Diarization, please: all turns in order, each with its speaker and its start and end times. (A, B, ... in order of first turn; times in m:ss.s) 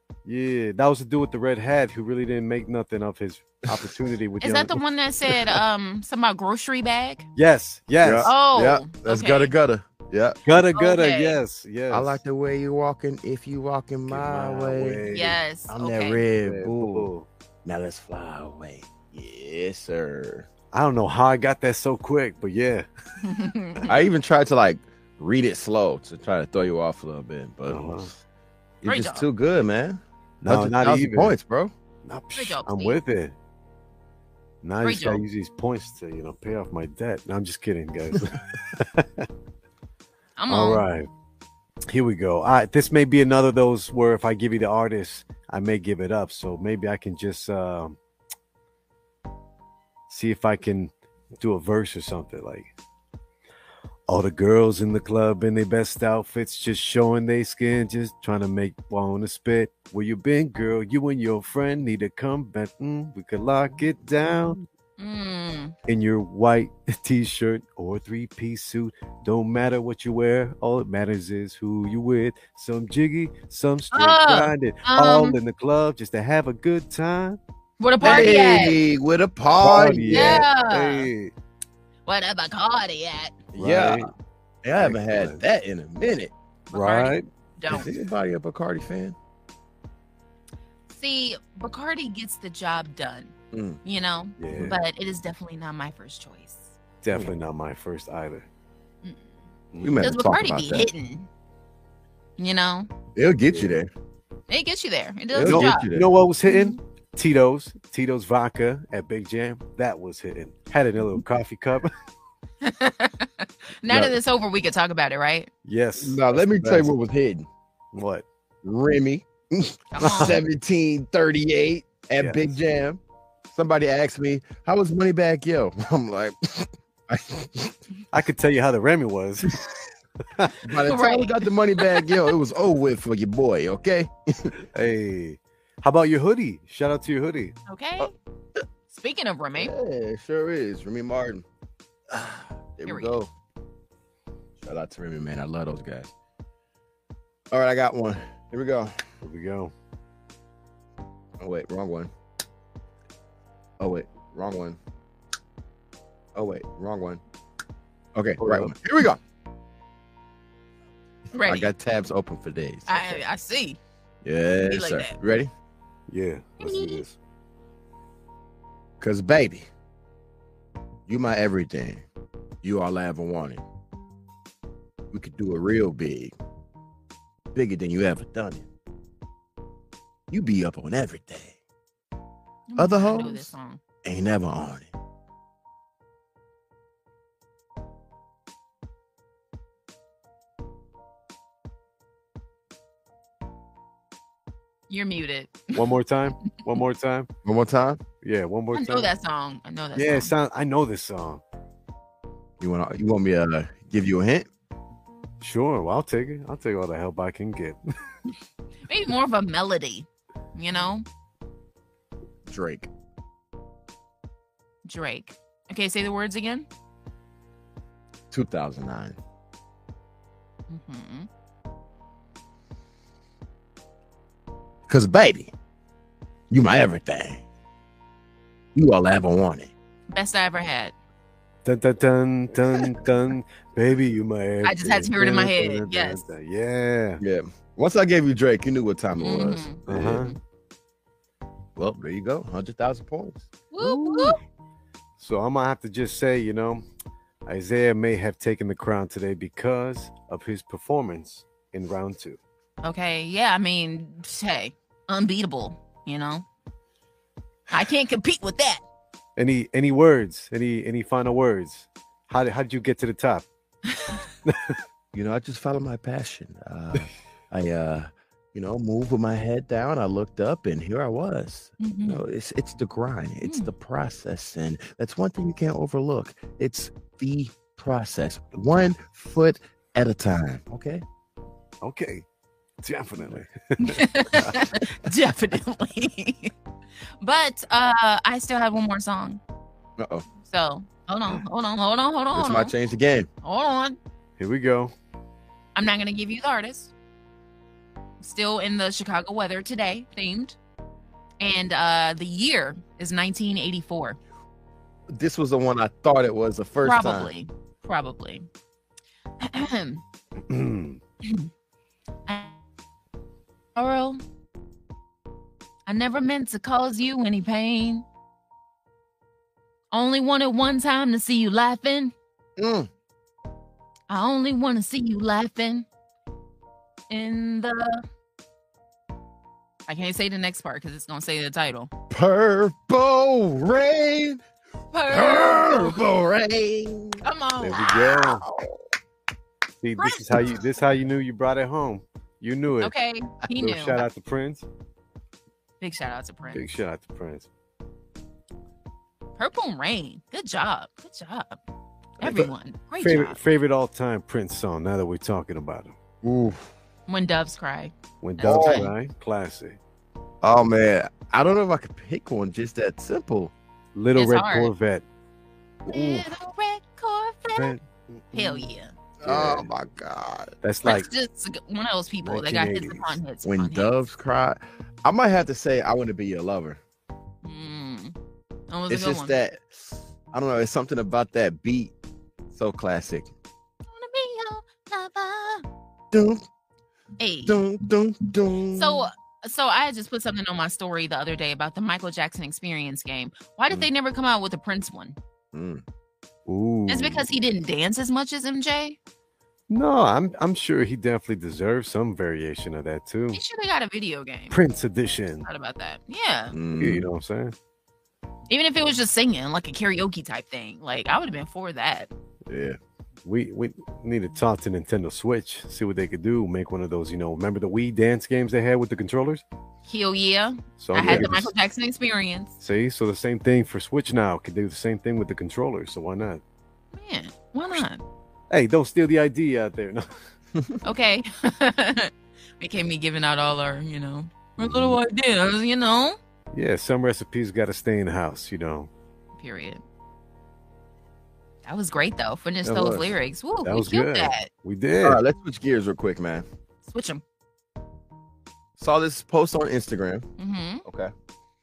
0:00.3-0:04.8 A
0:04.4-0:07.3 B
0:07.4-0:08.3 A
0:08.0-0:10.4 C
0:08.2-0:09.5 B
0:10.5-0:12.2 A
0:10.8-0:11.4 B
0:11.9-0:15.0 C
0:14.1-0:15.4 A
0:15.1-0:16.2 B
0:15.7-0:17.1 C
0:16.4-0:17.3 A
0:17.6-0:20.5 C
0:20.7-0:22.9 A
0:23.2-0:23.9 B
0:23.9-0:28.2 C
0:27.7-0:28.2 A
0:28.8-0:31.7 C
0:28.8-0:29.3 B
0:30.4-0:31.4 A
0:32.0-0:33.4 A
0:32.4-0:33.0 B
0:34.6-0:39.3 A
0:34.8-0:35.2 B
0:40.4-0:40.8 B
0:40.5-0:41.1 A
0:41.9-0:48.0 A
0:50.1-0:52.7 A
0:54.1-1:04.6 A
1:05.0-1:05.7 B
1:05.9-1:17.4 A
1:13.9-1:15.4 B
1:17.8-1:18.8 B
1:18.0-1:20.4 C
1:19.6-1:21.3 A
1:20.1-1:21.1 B
1:22.1-1:23.4 B
1:23.5-1:24.1 C
1:23.6-1:24.1 A
1:24.6-1:26.3 C
1:24.8-1:25.4 A
1:26.7-1:27.2 A
1:26.7-1:27.9 B
1:27.7-1:29.2 C
1:30.9-1:33.3 B
1:33.5-1:33.8 C
1:33.8-1:36.8 B
1:34.4-1:34.8 A
1:37.0-1:38.5 A
1:39.0-1:39.3 B
1:39.7-1:40.0 A
1:39.8-1:40.9 C
1:40.0-1:41.3 B
1:42.4-1:42.9 B
1:43.2-1:43.9 C
1:44.5-1:45.9 B
1:45.3-1:46.1 C
1:45.4-1:51.9 A
1:46.5-1:46.8 B
1:52.6-1:55.5 B
1:53.9-1:54.2 C
1:55.6-1:56.9 A
1:56.0-1:57.5 C
1:57.9-1:58.2 A
1:58.6-2:03.0 C
1:59.9-2:00.4 B
2:03.5-2:07.8 C
2:08.1-2:09.5 A
2:10.6-2:14.5 C
2:10.9-2:12.2 B
2:14.7-2:17.6 A
2:17.7-2:18.1 B
2:18.9-2:19.7 B
2:19.6-2:21.4 C
2:22.1-2:23.3 C
2:22.9-2:23.2 B
2:24.6-2:26.1 C
2:27.5-2:29.0 C
2:29.2-2:29.7 A
2:31.4-2:32.1 C
2:33.8-2:34.8 C
2:36.4-2:37.2 C
2:38.2-2:39.2 C
2:38.4-2:38.7 A
2:41.3-2:41.7 B
2:41.4-2:43.2 C
2:42.9-2:43.8 B
2:44.2-2:45.5 C
2:44.7-2:45.1 B
2:46.1-2:47.2 A
2:46.6-2:47.0 B
2:49.0-2:49.7 C
2:51.1-2:52.1 C
2:52.6-2:53.6 C
2:55.1-2:56.4 C
2:57.5-2:58.7 C
3:00.3-3:01.6 C
3:02.7-3:03.8 B
3:02.8-3:03.5 C
3:04.0-3:04.9 C
3:14.9-3:15.8 B
3:15.7-3:17.3 A
3:17.4-3:18.0 C
3:18.2-3:19.1 A
3:18.7-3:20.3 B
3:20.0-3:21.4 A
3:22.6-3:24.5 C
3:25.4-3:27.8 A
3:28.9-3:31.0 B
3:32.5-3:32.9 C
3:34.8-3:36.7 B
3:38.3-3:39.2 C
3:40.7-3:41.3 B
3:44.9-3:45.5 C
3:46.5-3:47.4 C
3:48.8-3:49.7 C
3:50.1-3:50.9 B
3:51.6-3:57.2 A
3:54.6-3:56.3 B
3:57.2-4:00.4 C
3:59.2-4:00.4 B
3:59.9-4:00.3 A
4:01.8-4:03.5 C
4:03.7-4:04.4 B
4:03.8-4:04.4 A
4:05.2-4:06.8 A
4:07.5-4:12.4 A
4:12.8-4:16.4 B
4:17.7-4:18.8 B
4:19.4-4:23.5 A
4:23.9-4:24.2 B
4:24.5-4:24.8 A
4:25.1-4:41.0 C
4:31.8-4:32.2 B
4:33.4-4:33.7 B
4:41.8-4:42.2 A
4:42.8-4:44.6 A
4:43.9-4:46.5 B
4:47.2-4:49.4 B
4:50.0-4:50.3 C
4:50.5-4:52.7 B
4:52.3-4:53.3 C
4:53.4-4:54.0 B
4:54.4-4:54.9 A
4:55.8-4:56.9 B
4:58.2-5:00.6 B
5:01.4-5:04.2 B
5:05.1-5:07.3 C
5:06.8-5:08.5 B
5:09.4-5:10.0 B
5:10.5-5:11.0 A
5:11.2-5:11.5 B
5:12.3-5:12.6 B
5:13.8-5:14.2 B
5:15.9-5:18.0 B
5:19.9-5:22.1 B
5:22.6-5:22.9 C
5:24.1-5:25.9 B
5:27.1-5:28.0 B
5:29.9-5:31.9 B
5:32.1-5:34.4 C
5:34.9-5:36.0 B
5:35.1-5:37.2 C
5:37.2-5:38.2 B
5:37.6-5:38.4 A
5:38.2-5:38.8 C
5:39.8-5:42.9 A
5:40.0-5:40.6 B
5:42.8-5:44.0 B
5:43.5-5:44.6 A
5:45.8-5:46.6 B
5:46.5-5:47.5 A
5:49.4-5:51.6 B
5:52.2-5:52.5 C
5:52.2-5:53.4 B
5:53.0-5:56.0 A
5:56.2-5:56.7 C
5:57.1-5:58.9 B
5:58.2-5:59.8 A
5:58.4-5:58.9 C
6:00.4-6:03.5 C
6:04.0-6:05.0 A
6:04.2-6:04.7 B
6:05.8-6:06.3 C
6:05.9-6:07.8 B
6:07.6-6:08.7 A
6:08.3-6:09.0 B
6:09.2-6:10.6 C
6:09.2-6:09.7 A
6:10.6-6:11.1 A
6:10.8-6:14.0 B
6:12.2-6:13.2 A
6:13.4-6:16.8 C
6:17.4-6:18.2 B
6:18.7-6:19.3 B
6:18.9-6:21.9 C
6:22.5-6:23.3 C
6:23.9-6:25.7 B
6:26.1-6:26.5 C
6:27.2-6:27.6 B
6:27.5-6:29.1 C
6:28.7-6:35.2 B
6:35.5-6:35.8 C
6:36.5-6:37.2 A
6:36.9-6:39.0 B
6:39.7-6:43.4 A
6:43.3-6:44.6 B
6:44.5-6:45.5 A
6:45.5-6:46.6 B
6:46.5-6:47.1 C
6:46.8-6:47.6 A
6:48.5-6:52.1 B
6:52.5-6:52.8 C
6:53.3-6:59.4 A
6:59.9-7:02.5 B
7:00.8-7:01.5 A
7:01.0-7:01.4 C
7:02.6-7:06.4 A
7:06.9-7:08.0 B
7:08.5-7:10.1 A
7:10.6-7:10.8 C
7:10.8-7:16.2 B
7:16.5-7:18.9 A
7:19.4-7:19.8 B
7:21.7-7:24.5 B
7:22.6-7:23.1 C
7:23.6-7:25.2 A
7:25.0-7:26.5 C
7:26.8-7:27.2 B
7:28.8-7:30.3 C
7:30.4-7:30.8 B
7:30.8-7:31.1 C